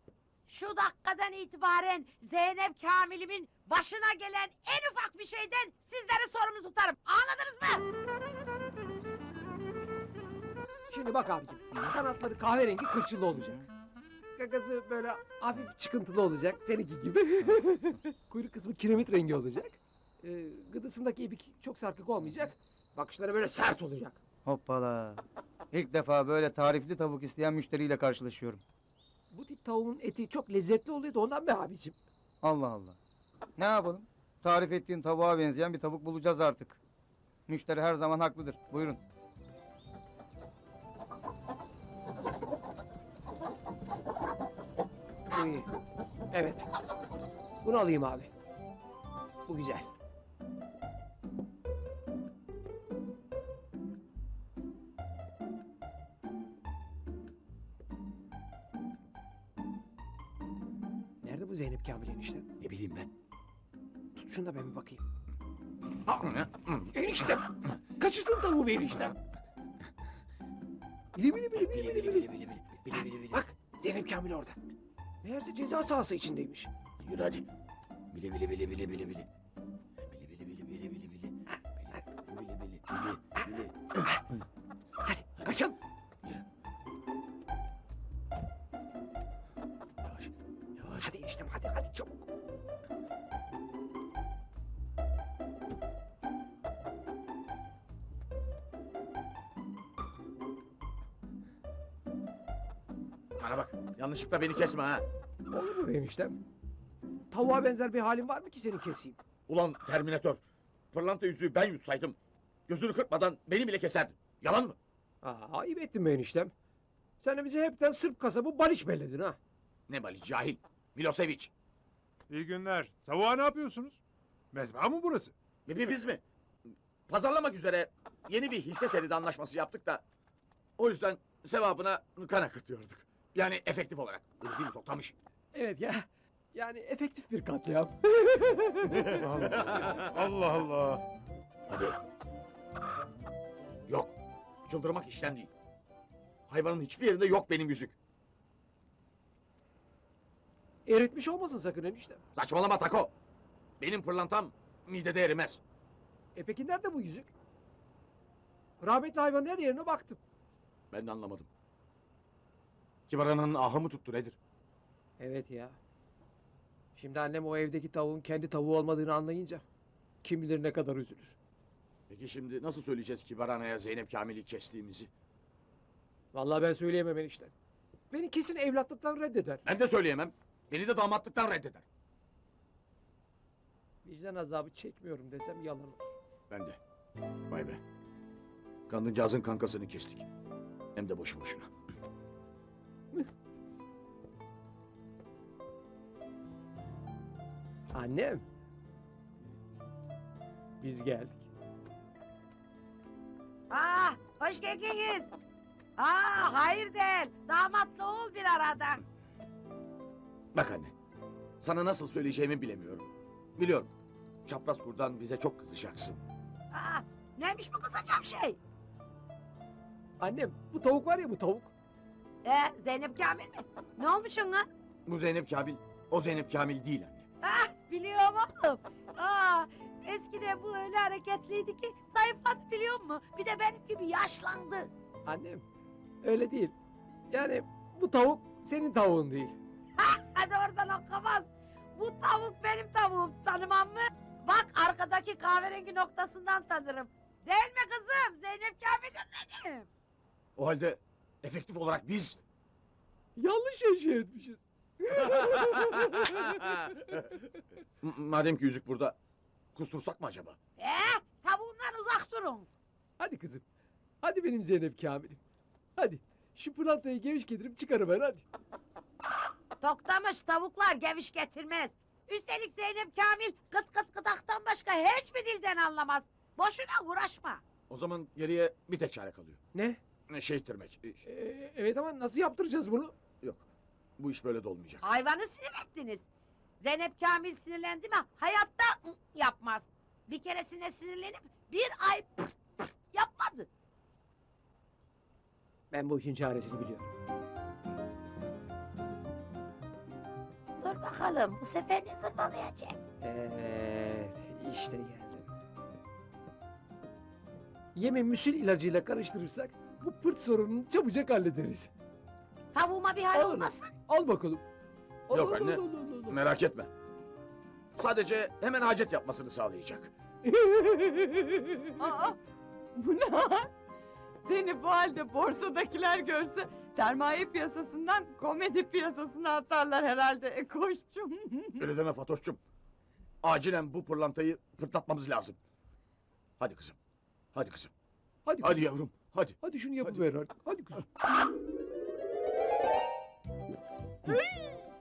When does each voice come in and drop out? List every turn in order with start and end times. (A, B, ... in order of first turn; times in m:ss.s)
0:00.5-0:07.8 A
0:10.9-0:13.7 B
0:14.4-0:24.2 B
0:24.4-0:28.6 C
0:29.3-0:32.0 B
0:32.4-0:33.0 C
0:33.6-0:36.8 C
0:37.5-0:39.0 C
0:45.3-0:45.7 B
0:46.3-0:46.7 B
0:47.6-0:48.3 B
0:49.5-0:49.9 B
1:01.2-1:02.5 B
1:02.6-1:03.1 D
1:04.1-1:05.1 B
1:06.0-1:06.9 D
1:06.9-1:09.2 B
1:11.1-1:12.3 B
1:11.6-1:13.4 D
1:12.9-1:14.6 B
1:15.2-1:16.7 B
1:17.0-1:17.4 D
1:18.1-1:19.3 D
1:20.0-1:21.3 D
1:21.5-1:22.0 B
1:22.3-1:24.0 D
1:23.4-1:24.2 B
1:25.0-1:25.7 B
1:30.0-1:31.0 D
1:31.0-1:32.3 B
1:43.4-1:45.0 D
1:45.5-1:46.4 B
1:47.3-1:49.2 B
1:49.5-1:50.4 D
1:50.9-1:52.2 D
1:52.7-1:54.8 D
1:55.2-1:56.5 B
1:57.2-1:59.4 B
1:59.9-2:01.5 D
2:02.3-2:04.0 E
2:04.5-2:05.3 E
2:05.7-2:06.2 D
2:07.1-2:10.0 D
2:10.8-2:15.1 D
2:15.5-2:19.2 B
2:18.9-2:20.1 D
2:19.2-2:21.0 E
2:21.7-2:22.0 D
2:24.6-2:25.5 D
2:26.5-2:27.9 D
2:30.8-2:32.2 B
2:32.3-2:33.1 D
2:33.8-2:35.6 D
2:36.3-2:37.3 B
2:38.8-2:40.2 B
2:40.9-2:41.5 D
2:43.1-2:44.4 D
2:45.2-2:45.8 B
2:46.9-2:49.6 B
2:50.2-2:51.4 B
2:52.1-2:55.1 D
2:56.3-2:57.5 B
2:58.1-2:59.6 B
2:59.6-3:01.8 D
3:04.0-3:06.2 B
3:06.5-3:06.8 D
3:07.5-3:07.8 D
3:08.9-3:10.2 D
3:11.0-3:11.7 D
3:17.9-3:18.4 B
3:20.8-3:21.5 B
3:23.7-3:25.3 A
3:26.0-3:29.0 A
3:30.5-3:30.9 D
3:31.6-3:33.9 D
3:34.4-3:36.2 D
3:36.7-3:38.6 A
3:40.2-3:41.7 B
3:42.4-3:44.7 A
3:45.0-3:47.2 D
3:47.4-3:54.9 A
3:55.2-3:55.6 B
3:56.2-3:56.7 B
3:57.3-3:59.6 B
4:00.0-4:09.9 A
4:10.6-4:12.4 D
4:13.4-4:17.1 B
4:15.2-4:17.3 D
4:18.0-4:19.2 D
4:19.7-4:20.6 D
4:20.8-4:22.7 A
4:23.2-4:23.6 B
4:24.2-4:25.4 B
4:26.0-4:28.4 B
4:29.8-4:37.6 A
4:37.9-4:39.6 D
4:39.7-4:40.0 B
4:40.3-4:41.2 D
4:41.2-4:43.1 B
4:44.2-4:45.0 D
4:45.0-4:46.2 A
4:46.8-4:53.7 A
4:55.9-4:57.1 B
5:00.8-5:03.0 A
5:03.2-5:05.5 B
5:07.9-5:11.9 B
5:12.7-5:13.9 A
5:13.3-5:14.6 B
5:15.3-5:16.4 B
5:15.3-5:16.9 D
5:17.9-5:20.1 D
5:20.4-5:21.9 B
5:22.0-5:22.4 F
5:23.0-5:23.7 F
5:24.4-5:31.8 F
5:31.8-5:32.6 D
5:33.4-5:35.6 D
5:36.6-5:37.0 D
5:37.5-5:37.9 D
5:38.4-5:38.9 B
5:38.6-5:40.2 D
5:39.6-5:41.1 B
5:44.3-5:44.8 F